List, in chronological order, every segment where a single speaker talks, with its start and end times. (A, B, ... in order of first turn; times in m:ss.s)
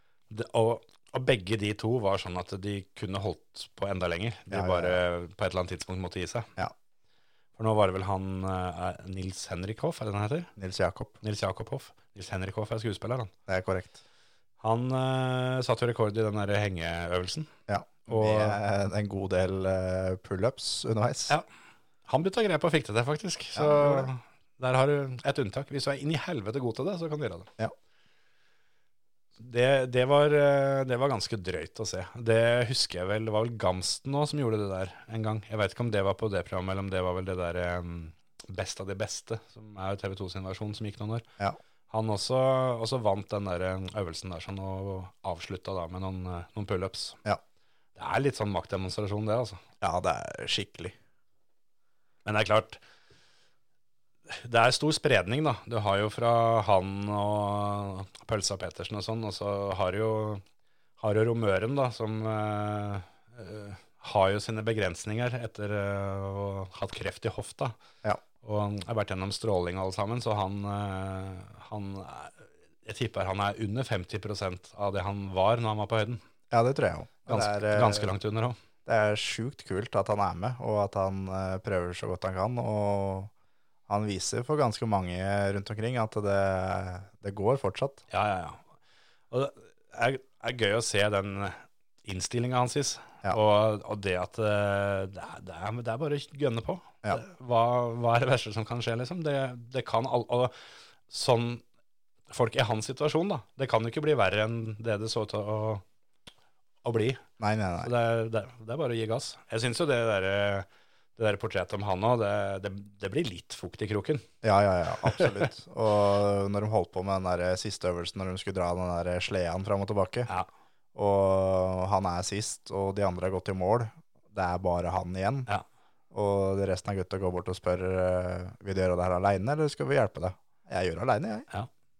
0:00.3-0:06.5 A
0:04.5-0:05.0 B
0:07.6-0:10.5 A
0:10.6-0:11.2 B
0:11.2-0:13.3 A
0:13.5-0:14.0 B
0:14.6-0:17.5 A
0:17.7-0:21.3 B
0:18.0-0:18.6 A
0:22.0-0:27.5 A
0:23.6-0:24.1 B
0:29.4-0:41.2 A
0:41.9-0:47.2 A
0:48.0-0:49.6 A
0:49.8-0:50.9 B
0:52.2-0:52.8 A
0:54.3-1:00.4 A
1:01.0-1:07.7 A
1:08.4-1:16.2 A
1:16.5-1:18.1 B
1:17.3-1:18.6 A
1:18.8-1:23.3 B
1:23.9-1:28.0 B
1:28.1-1:28.6 A
1:29.3-1:40.5 A
1:41.1-1:41.6 A
1:42.3-1:45.8 A
1:46.8-1:47.2 A
1:47.4-1:47.9 B
1:47.8-1:54.2 A
1:54.4-2:00.3 B
1:55.0-1:55.4 A
2:00.9-2:05.5 B
2:06.1-2:11.5 B